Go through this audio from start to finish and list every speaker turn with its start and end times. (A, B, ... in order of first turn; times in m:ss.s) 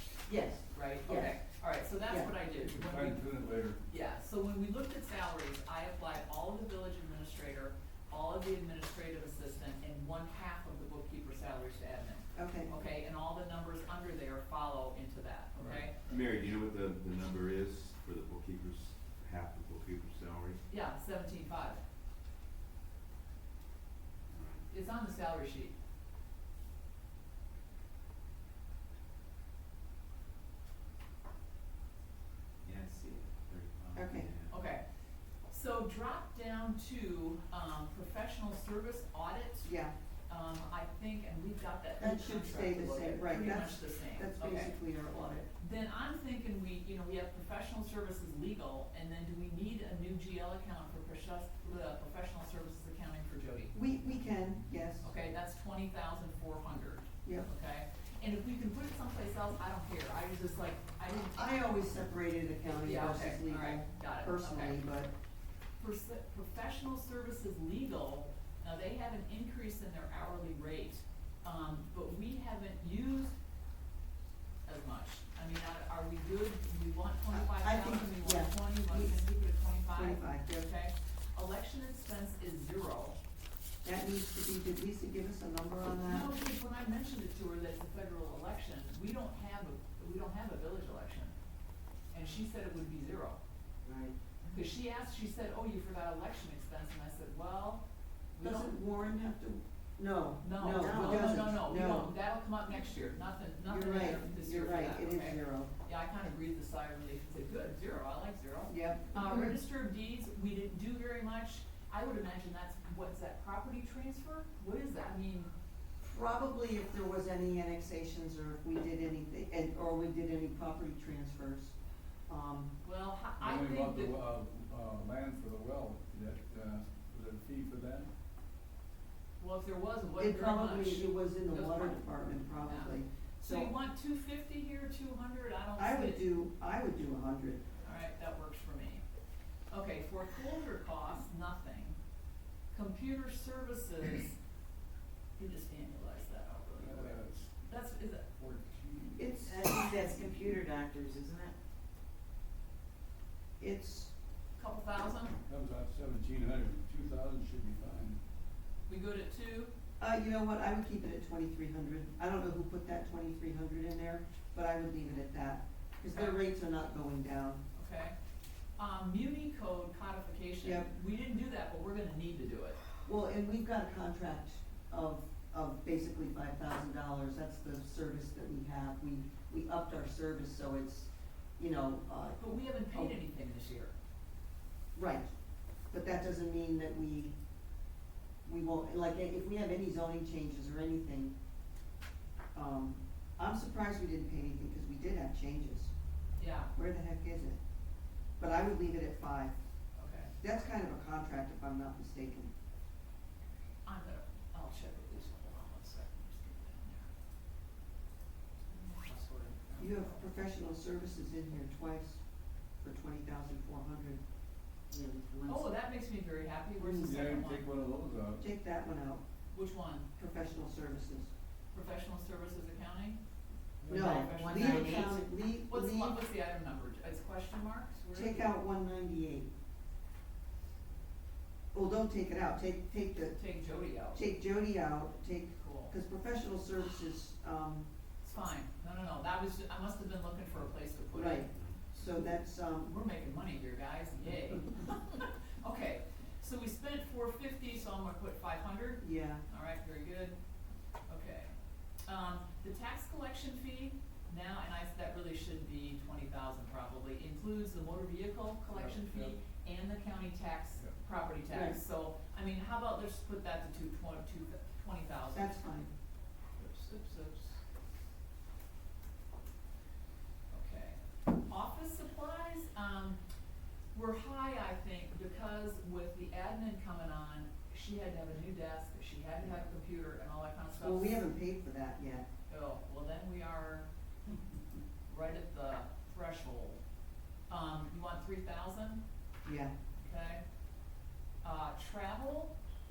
0:00.2-0:01.4 A
0:00.7-0:03.2 B
0:02.5-0:03.8 C
0:03.9-0:16.0 B
0:12.4-0:12.7 A
0:15.6-0:15.8 C
0:16.1-0:20.6 D
0:20.7-0:21.8 B
0:24.3-0:24.6 D
0:24.7-0:25.7 B
0:32.6-0:34.5 D
0:34.0-0:34.3 A
0:34.5-0:34.8 B
0:35.5-0:39.7 B
0:39.6-0:39.9 A
0:40.3-0:44.7 B
0:42.0-0:45.5 A
0:45.6-0:53.7 B
0:53.7-0:55.1 A
0:55.0-1:01.4 B
1:01.3-1:05.1 A
1:02.8-1:04.8 B
1:05.8-1:13.4 B
1:14.6-1:23.2 B
1:17.3-1:19.2 A
1:19.9-1:20.7 A
1:23.8-1:26.3 A
1:26.1-1:31.3 B
1:32.1-1:33.4 B
1:33.9-1:34.1 E
1:34.5-1:38.7 B
1:38.4-1:42.1 A
1:40.4-1:55.5 B
1:43.6-1:45.7 A
1:48.7-1:49.6 A
1:56.0-2:01.8 A
2:02.3-2:02.7 A
2:02.8-2:04.2 B
2:03.4-2:08.1 C
2:09.4-2:12.0 B
2:10.2-2:13.7 A
2:12.7-2:16.2 B
2:15.8-2:17.6 A
2:17.8-2:19.0 B
2:19.7-2:22.0 B
2:22.7-2:24.4 B
2:25.4-2:28.3 B
2:26.8-2:27.6 C
2:28.3-2:29.3 C
2:29.2-2:29.9 A
2:29.4-2:31.5 E
2:33.6-2:34.1 A
2:34.6-2:35.4 B
2:35.5-2:38.2 C
2:38.9-2:39.7 B
2:40.0-2:47.6 A
2:46.1-2:46.4 B
2:47.8-2:48.2 B
2:48.8-2:52.8 B
2:50.6-2:50.9 A
2:53.0-3:03.1 A
3:02.4-3:03.9 B
3:04.9-3:05.3 A
3:05.9-3:07.3 A
3:08.4-3:11.3 A
3:12.5-3:15.9 A
3:16.4-3:16.7 B
3:16.7-3:17.6 A
3:18.4-3:19.5 A
3:20.0-3:20.3 B
3:20.4-3:22.5 A
3:23.8-3:27.1 B
3:28.7-3:30.2 B
3:29.8-3:32.2 A
3:32.8-3:34.2 A
3:34.9-3:35.6 E
3:35.5-3:37.6 B
3:36.8-3:37.2 A
3:37.0-3:38.4 C
3:38.4-3:39.2 A
3:39.5-3:40.1 B
3:40.2-3:41.3 A
3:41.7-3:43.2 B
3:43.8-3:44.1 C
3:43.9-3:45.2 B
3:43.9-3:46.2 A
3:44.0-3:45.2 E
3:45.7-3:48.5 B
3:48.1-3:49.5 A
3:51.7-3:53.3 A
3:53.2-3:54.2 B
3:54.1-3:57.9 A
3:55.6-3:55.9 B
3:58.2-4:01.5 B
4:01.1-4:02.9 A
4:02.8-4:10.4 B
4:09.0-4:09.4 A
4:11.1-4:11.5 B
4:12.1-4:25.6 B
4:18.7-4:19.4 C
4:21.5-4:21.8 A
4:25.3-4:25.9 A
4:26.6-4:27.6 B
4:30.5-4:33.2 B
4:33.9-4:41.2 B
4:40.8-4:42.2 A
4:42.5-4:43.9 B
4:45.1-4:46.8 B
4:47.5-4:49.0 B
4:49.4-4:49.7 A
4:50.0-4:50.4 B
4:51.4-4:52.5 B